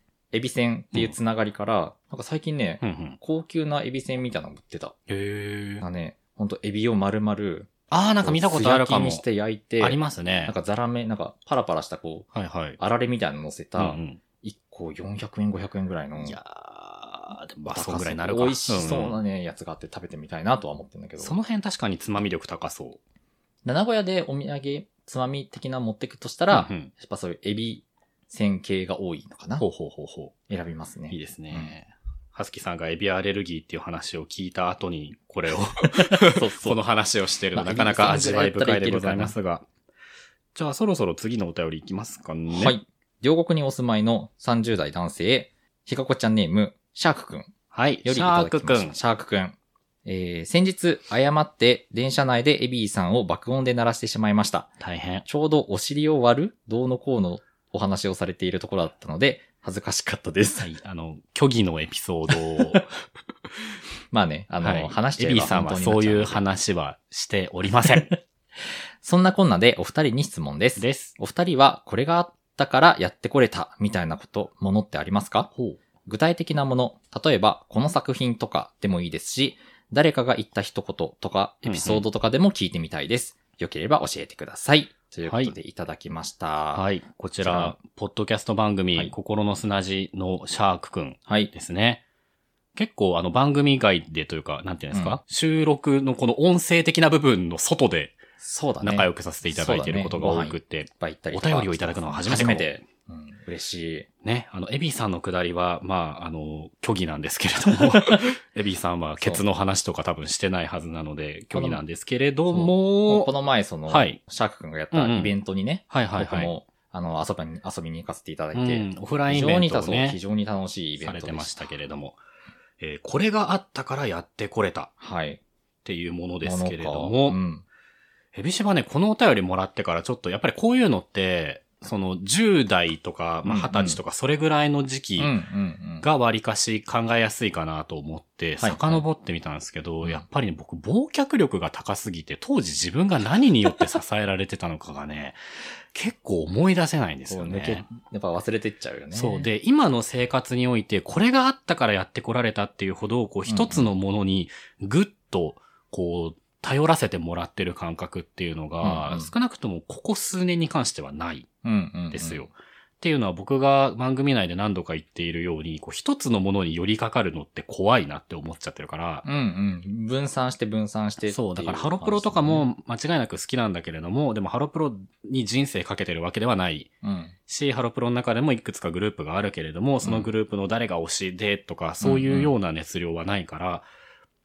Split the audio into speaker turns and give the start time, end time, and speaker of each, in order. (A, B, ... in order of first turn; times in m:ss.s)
0:00.3-0:05.0 A
0:02.8-0:03.2 B
0:05.1-0:05.8 B
0:05.8-0:12.3 A
0:07.9-0:09.2 B
0:09.8-0:10.5 B
0:12.3-0:12.8 B
0:12.8-0:16.4 A
0:13.8-0:14.2 B
0:16.2-0:19.2 B
0:17.7-0:21.4 A
0:21.2-0:23.0 B
0:23.6-0:29.6 A
0:26.5-0:26.9 B
0:29.6-0:30.3 B
0:30.5-0:31.7 A
0:31.1-0:39.7 B
0:35.8-0:36.8 A
0:37.5-0:39.4 A
0:40.5-0:42.7 B
0:42.5-0:47.5 A
0:47.7-0:49.0 B
0:48.0-0:54.7 A
0:54.8-0:55.2 B
0:55.2-1:00.7 A
1:00.6-1:02.9 B
1:02.3-1:02.8 A
1:04.1-1:06.4 A
1:04.6-1:08.1 B
1:07.8-1:08.1 A
1:09.0-1:15.5 A
1:10.8-1:11.1 B
1:15.5-1:15.8 B
1:16.0-1:26.8 A
1:21.6-1:22.0 B
1:25.2-1:25.5 B
1:26.7-1:32.0 B
1:27.4-1:27.8 A
1:32.7-1:38.2 B
1:34.9-1:35.2 A
1:38.4-1:44.1 A
1:38.8-1:42.7 B
1:44.2-1:53.3 B
1:47.8-1:48.2 A
1:51.5-1:51.8 A
1:52.5-2:01.6 A
1:53.9-1:54.2 B
1:54.9-1:55.3 B
1:55.9-1:56.5 B
1:58.5-2:00.2 B
2:01.0-2:02.2 B
2:02.8-2:04.9 B
2:05.0-2:05.4 A
2:05.8-2:07.4 B
2:06.4-2:07.6 A
2:08.3-2:15.3 B
2:13.4-2:14.0 A
2:15.2-2:16.0 A
2:16.0-2:25.4 B
2:18.6-2:19.0 A
2:25.9-2:27.9 B
2:27.3-2:29.5 A
2:29.1-2:41.5 B
2:33.5-2:33.9 A
2:38.8-2:39.3 A
2:41.6-2:42.5 A
2:42.1-2:49.2 B
2:49.2-2:52.7 A
2:51.2-2:56.9 B
2:57.0-2:57.3 A
2:57.5-3:03.9 B
3:00.0-3:00.3 A
3:02.0-3:02.5 A